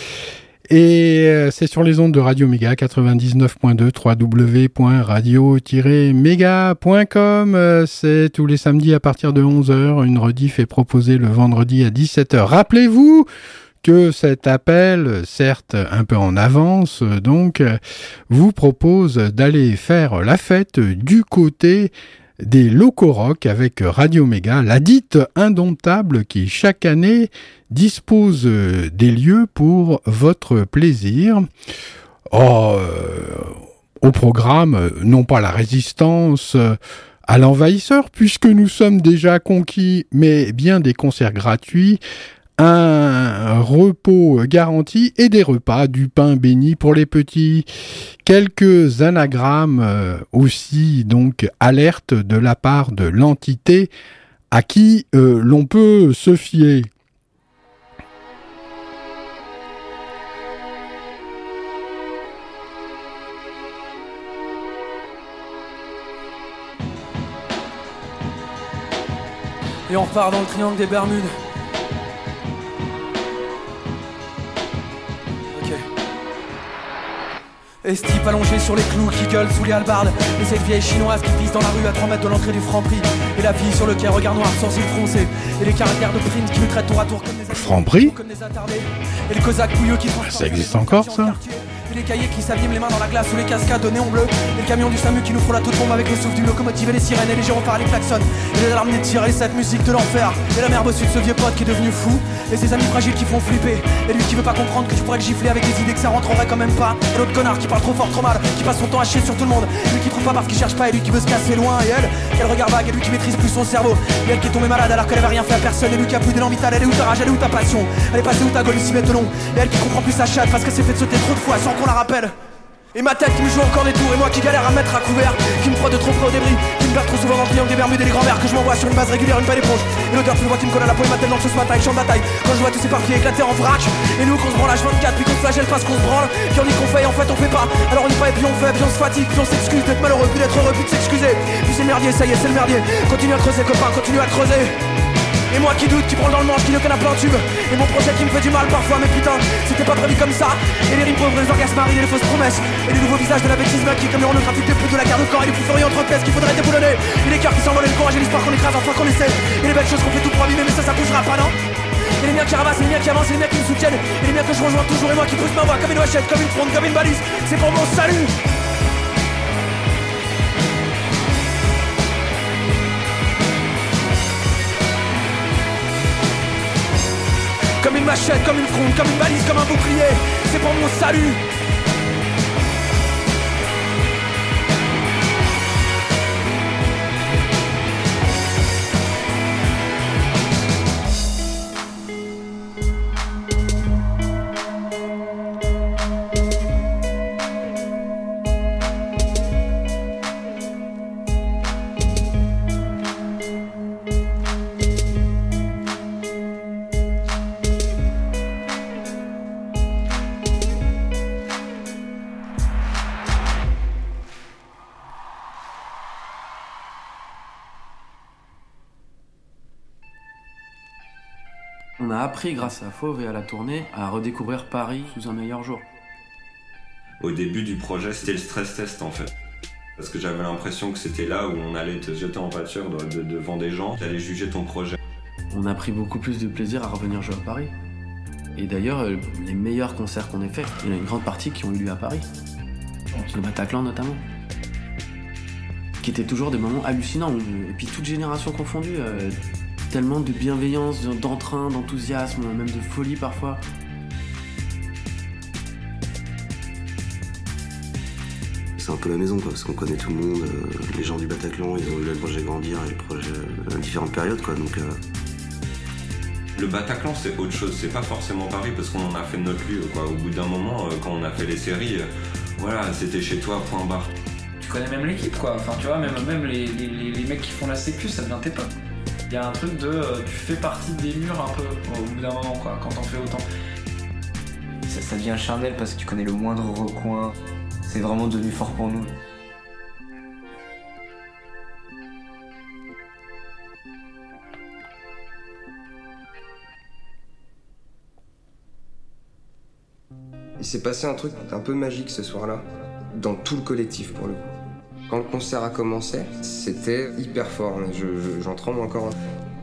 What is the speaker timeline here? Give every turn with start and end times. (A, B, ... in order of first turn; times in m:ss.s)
0:00.7-0:13.3 A
0:13.8-0:17.8 A
0:18.3-0:31.5 A
0:32.3-0:42.0 A
0:42.6-0:47.7 A
0:48.2-0:53.9 A
0:54.5-0:56.9 A
1:09.9-1:11.4 B
1:15.5-1:15.9 B
1:17.8-2:02.3 B
1:27.5-1:28.2 A
1:30.2-1:31.4 A
2:02.9-2:24.8 B
2:25.5-2:41.6 B
2:42.2-2:48.3 B
2:57.8-3:01.4 B
3:42.0-3:45.8 C
3:47.2-3:49.3 D
3:50.0-3:55.0 D
3:55.5-3:57.7 C
3:58.6-4:02.2 C
4:03.1-4:04.2 C
4:06.0-4:09.4 C
4:09.9-4:13.6 C
4:18.8-4:25.0 E
4:26.6-4:34.1 D
4:34.6-4:38.7 F
4:39.3-4:43.4 F
4:44.9-4:47.3 G
4:47.9-4:49.1 G
5:00.6-5:04.5 H
5:05.1-5:09.2 H